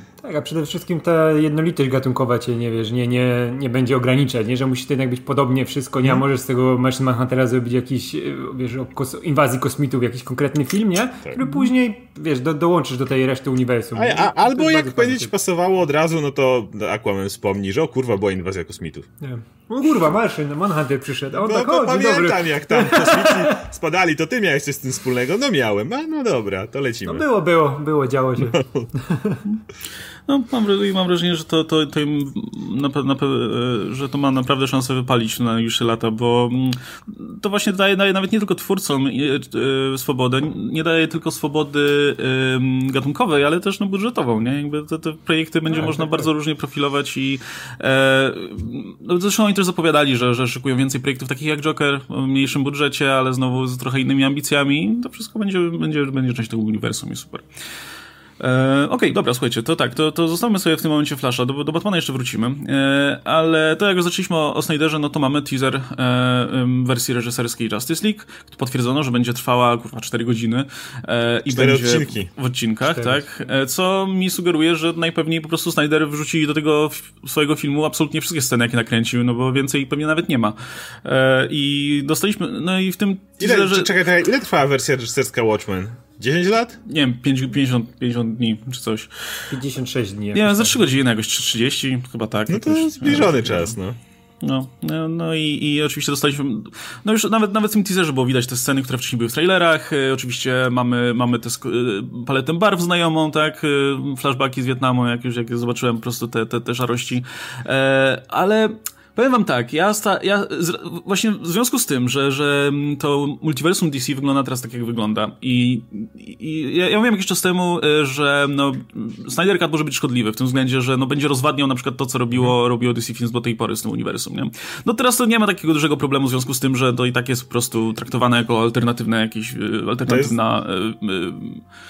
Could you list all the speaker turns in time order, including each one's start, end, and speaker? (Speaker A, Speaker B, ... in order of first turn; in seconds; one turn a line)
Speaker A: 0.2-15.3
Speaker B: 13.9-19.1
Speaker A: 19.2-23.6
Speaker B: 21.4-27.2
Speaker A: 27.0-29.4
Speaker B: 28.4-28.9
Speaker C: 30.3-57.5
Speaker A: 45.8-46.2
Speaker C: 58.4-83.9
Speaker B: 71.5-72.3
Speaker A: 72.8-73.2
Speaker B: 83.4-86.8
Speaker C: 86.8-89.1
Speaker A: 89.5-90.8
Speaker C: 90.3-93.7
Speaker B: 92.5-94.0
Speaker C: 94.4-131.6
Speaker B: 130.1-130.3